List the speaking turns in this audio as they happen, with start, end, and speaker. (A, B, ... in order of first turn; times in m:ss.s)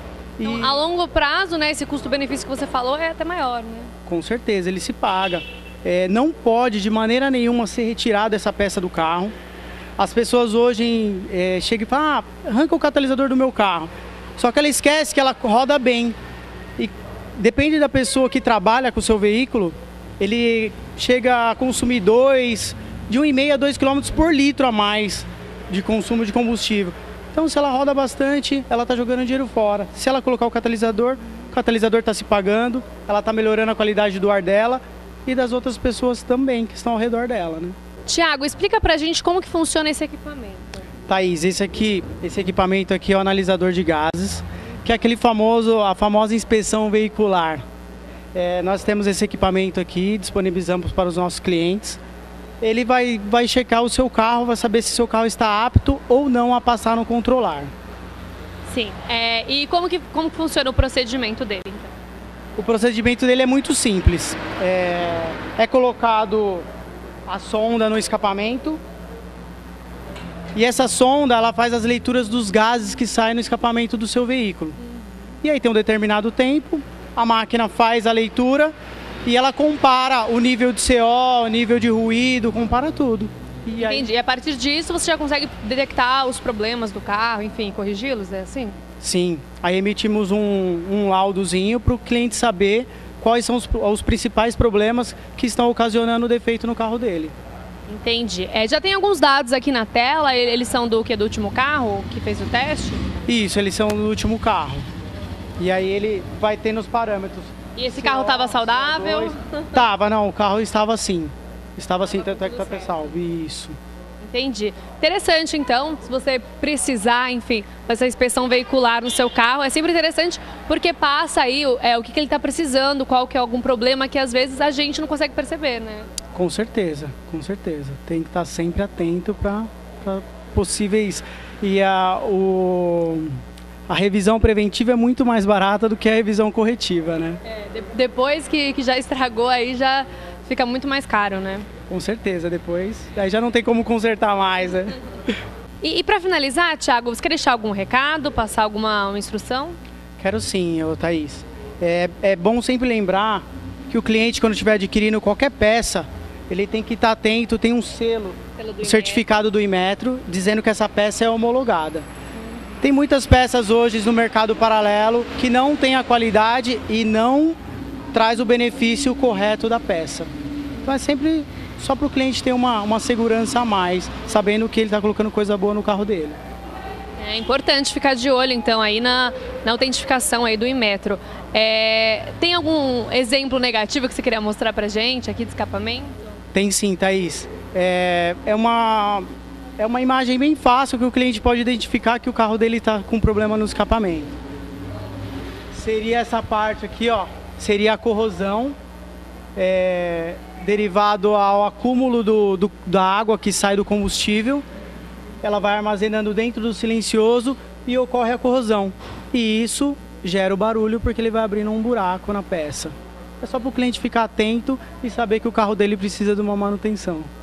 0:00.4-0:00.8 A
0:00.4-0:03.9 B
0:04.0-0:09.3 A
0:10.0-0:16.2 A
0:16.8-0:37.8 A
0:38.1-0:40.8 B
0:41.1-0:47.6 A
0:48.3-0:52.0 A
0:52.6-0:57.7 A
0:58.7-1:01.9 B
1:02.6-1:06.6 A
1:07.3-1:08.8 A
1:10.5-1:14.8 A
1:15.4-1:18.7 A
1:19.2-1:24.1 A
1:23.8-1:28.8 B
1:29.0-1:37.3 A
1:37.9-1:43.0 B
1:43.3-1:44.9 A
1:45.6-1:53.8 A
1:47.8-1:49.8 B
1:52.3-1:52.9 B
1:54.2-2:06.1 B
2:06.3-2:17.4 A
2:17.4-2:21.7 B
2:21.9-2:25.0 A
2:25.8-2:29.8 B
2:30.2-2:42.0 A
2:38.6-2:39.2 B
2:42.8-2:47.6 A
2:48.1-2:50.3 A
2:50.8-2:56.4 A
2:57.2-3:06.2 B
3:06.5-3:09.3 A
3:09.8-3:14.3 A
3:15.7-3:18.8 A
3:19.6-3:24.6 A
3:25.4-3:37.3 A